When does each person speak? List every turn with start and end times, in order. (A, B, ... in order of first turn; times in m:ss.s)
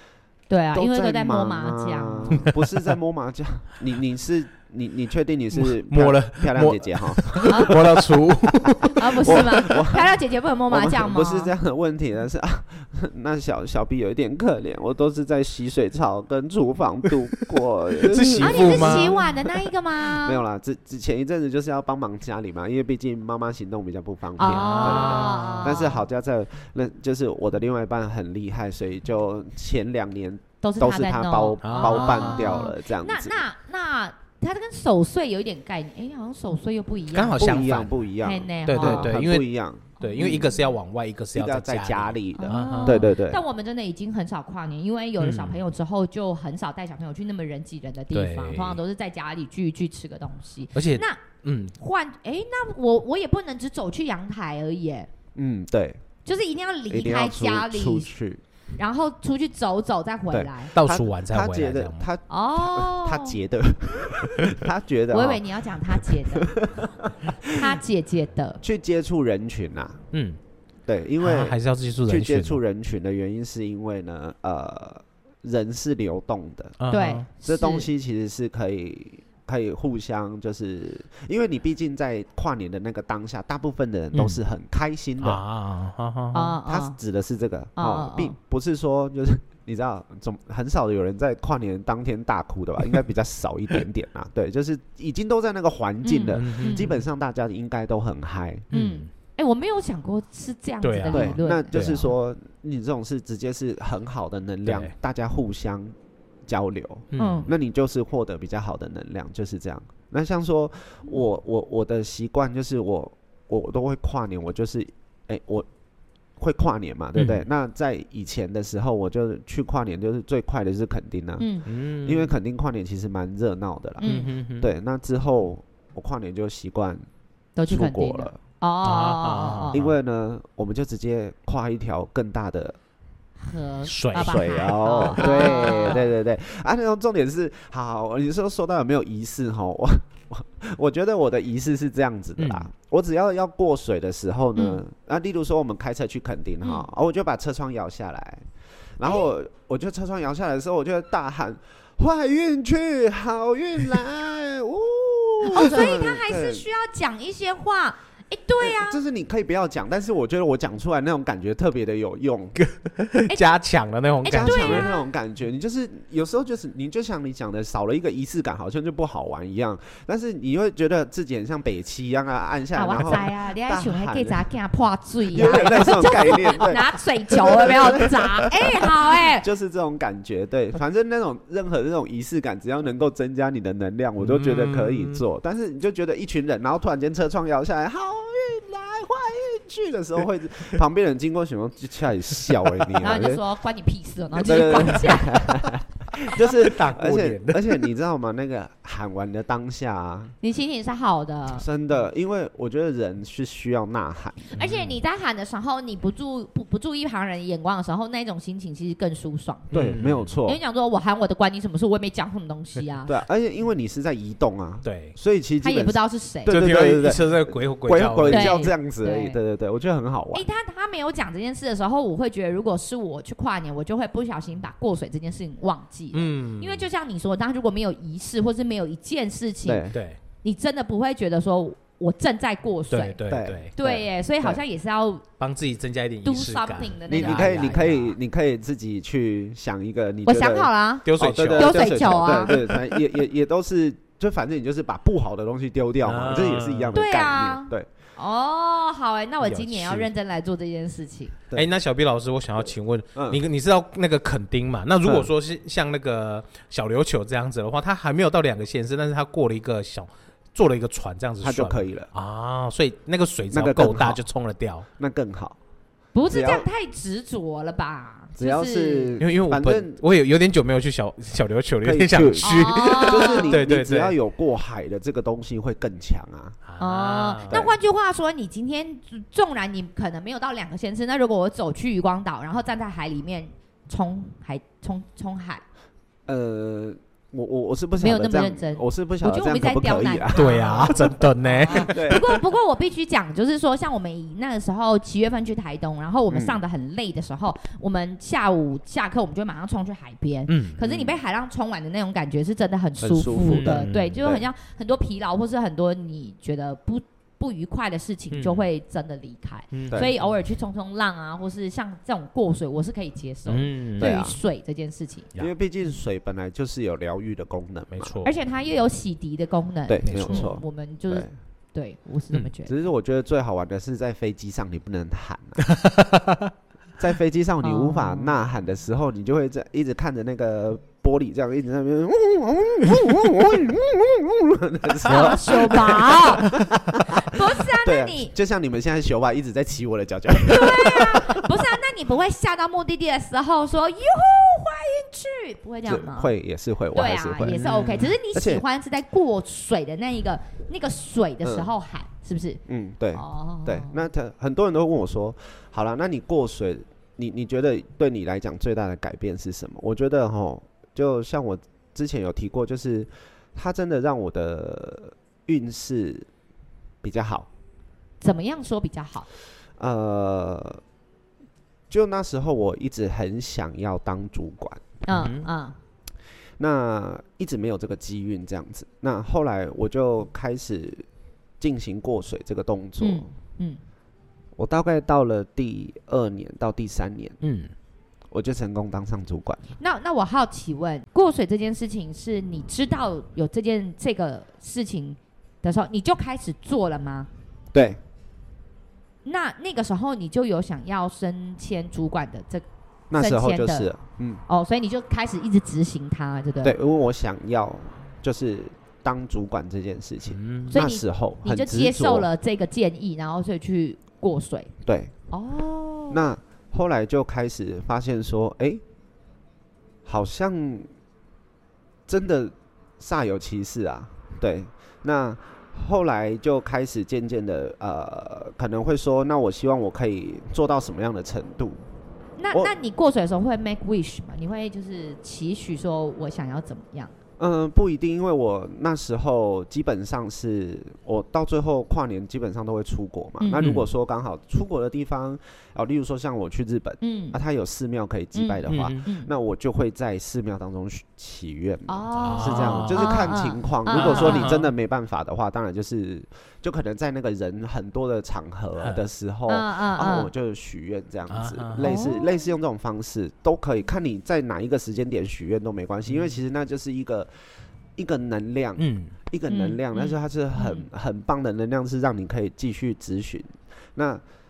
0:00.5-0:02.5 A
0:00.7-0:19.3 B
0:05.5-0:09.7 C
0:07.4-0:07.8 A
0:09.0-0:11.5 A
0:18.0-0:19.2 C
0:18.4-0:20.4 A
0:20.0-0:33.4 B
0:24.4-0:26.0 A
0:24.4-0:25.8 C
0:30.6-0:37.7 A
0:31.6-0:32.7 C
0:37.1-0:38.0 C
0:37.4-0:40.6 B
0:38.2-0:39.2 A
0:38.7-0:43.1 C
0:40.0-0:40.6 A
0:41.3-0:43.4 B
0:42.4-0:51.2 A
0:45.2-0:45.6 C
0:48.1-0:48.8 C
0:50.7-0:51.8 C
0:51.8-0:55.1 A
0:55.4-0:56.0 B
0:56.3-0:58.1 A
0:56.9-0:58.4 B
0:58.8-1:00.7 A
1:00.3-1:07.6 B
1:00.8-1:02.1 C
1:02.3-1:03.4 A
1:05.1-1:06.6 A
1:07.5-1:08.6 A
1:08.6-1:10.0 B
1:10.1-1:10.4 C
1:10.9-1:16.8 B
1:11.2-1:12.6 C
1:16.8-1:17.3 C
1:16.9-1:17.9 A
1:17.4-1:25.4 B
1:24.1-1:24.4 C
1:25.2-1:26.6 C
1:26.3-1:27.0 A
1:26.7-1:38.7 B
1:27.8-1:28.4 A
1:36.0-1:36.9 A
1:36.3-1:37.0 C
1:38.7-1:39.1 C
1:38.7-1:41.8 A
1:40.8-1:42.1 C
1:41.1-1:46.0 B
1:44.6-1:44.9 C
1:46.5-1:55.7 B
1:47.1-1:47.5 C
1:47.2-1:47.5 A
1:56.4-2:07.0 B
1:57.2-1:57.5 C
2:01.4-2:01.6 A
2:01.7-2:02.3 C
2:04.0-2:04.3 A
2:04.0-2:04.7 C
2:07.6-2:09.8 A
2:07.7-2:08.4 B
2:08.8-2:09.9 C
2:09.7-2:12.8 B
2:13.4-2:16.0 A
2:13.8-2:16.0 C
2:14.2-2:28.5 B
2:22.4-2:22.7 C
2:24.6-2:24.8 A
2:29.0-2:36.7 B
2:29.0-2:29.3 A
2:35.4-2:39.0 A
2:38.6-2:42.6 B
2:42.6-2:44.9 C
2:44.2-2:45.0 A
2:44.3-2:54.4 B
2:52.8-2:59.5 A
2:55.3-3:13.4 B
3:04.2-3:05.2 C
3:13.0-3:15.5 A
3:14.4-3:20.4 B
3:16.3-3:17.9 C
3:20.4-3:21.7 A
3:21.5-3:24.5 B
3:24.5-3:29.9 A
3:24.6-3:25.0 C
3:29.7-3:30.6 B
3:29.7-3:30.3 C
3:30.4-3:33.2 A
3:33.1-3:40.5 B
3:34.8-3:35.2 C
3:35.6-3:36.6 A
3:36.5-3:38.7 C
3:38.3-3:39.4 A
3:40.3-3:49.9 A
3:46.1-3:46.9 C
3:49.6-3:50.0 B
3:49.9-3:50.2 C
3:50.4-3:53.2 A
3:52.9-3:53.7 C
3:53.3-3:54.6 B
3:53.8-3:55.2 A
3:55.4-3:58.2 C
3:56.2-3:58.0 A
3:57.1-4:07.9 B
4:00.2-4:02.8 A
4:01.0-4:02.5 C
4:06.0-4:07.0 C
4:06.9-4:11.4 A
4:09.4-4:10.1 C
4:11.5-4:24.9 C
4:13.2-4:13.4 B
4:15.0-4:15.3 B
4:21.4-4:22.1 B
4:23.5-4:24.2 B
4:25.0-4:25.6 B
4:26.1-4:29.2 A
4:26.3-4:26.7 B
4:28.4-4:30.0 B
4:29.2-4:34.2 C
4:31.8-4:36.6 B
4:32.4-4:33.5 A
4:36.7-4:37.6 C
4:36.8-4:45.6 A
4:37.5-4:37.8 B
4:46.3-4:51.0 B
4:48.0-5:15.3 A
4:50.4-4:52.0 C
4:51.7-4:52.4 B
4:56.3-4:56.6 B
5:00.5-5:00.8 C
5:00.8-5:01.1 B
5:03.0-5:04.4 B
5:03.4-5:04.2 C
5:08.3-5:08.7 C
5:09.7-5:10.3 C
5:13.5-5:14.2 C
5:14.0-5:14.4 B
5:15.4-5:18.2 B
5:17.9-5:18.4 C
5:18.2-5:22.7 A
5:19.9-5:21.3 B
5:20.0-5:20.5 C
5:22.7-5:25.6 B
5:25.6-5:26.5 C
5:27.0-5:41.6 B
5:27.6-5:28.4 A
5:35.0-5:36.5 A
5:35.0-5:36.7 C
5:37.1-5:38.3 A
5:40.5-5:46.3 A
5:45.9-5:47.6 B
5:46.9-5:52.6 A
5:47.4-5:48.1 C
5:48.3-5:48.6 B
5:51.4-5:51.7 B
5:52.7-6:06.3 B
5:53.1-5:54.0 A
6:07.0-6:07.5 B
6:08.2-6:09.3 A
6:09.8-6:10.8 B
6:11.9-6:14.9 B
6:15.0-6:15.8 A
6:15.1-6:15.5 C
6:16.6-6:21.1 B
6:21.6-6:23.3 B
6:23.0-6:23.8 A
6:24.6-6:27.4 B
6:27.4-6:27.7 C
6:28.3-6:29.6 B
6:29.8-6:37.3 A
6:37.7-6:38.0 B
6:39.2-6:42.6 A
6:43.1-6:44.4 B
6:43.2-6:43.9 A
6:44.5-6:46.8 A
6:46.6-6:52.3 B
6:50.3-6:50.8 C
6:50.7-6:54.7 A
6:54.8-6:55.1 B
6:55.3-6:56.2 A
6:56.1-6:58.8 B
7:00.1-7:00.9 B
7:02.1-7:11.8 B
7:12.4-7:17.1 A
7:17.4-7:47.3 B
7:23.4-7:23.7 A
7:23.6-7:23.9 C
7:27.0-7:27.4 A
7:28.4-7:29.3 A
7:28.7-7:29.0 C
7:31.9-7:34.6 A
7:32.2-7:33.4 C
7:33.9-7:34.7 C
7:39.5-7:40.3 A
7:41.3-7:41.9 C
7:41.8-7:42.2 A
7:46.1-7:46.4 C
7:48.0-7:54.2 B
7:48.8-7:49.2 C
7:49.5-7:50.9 A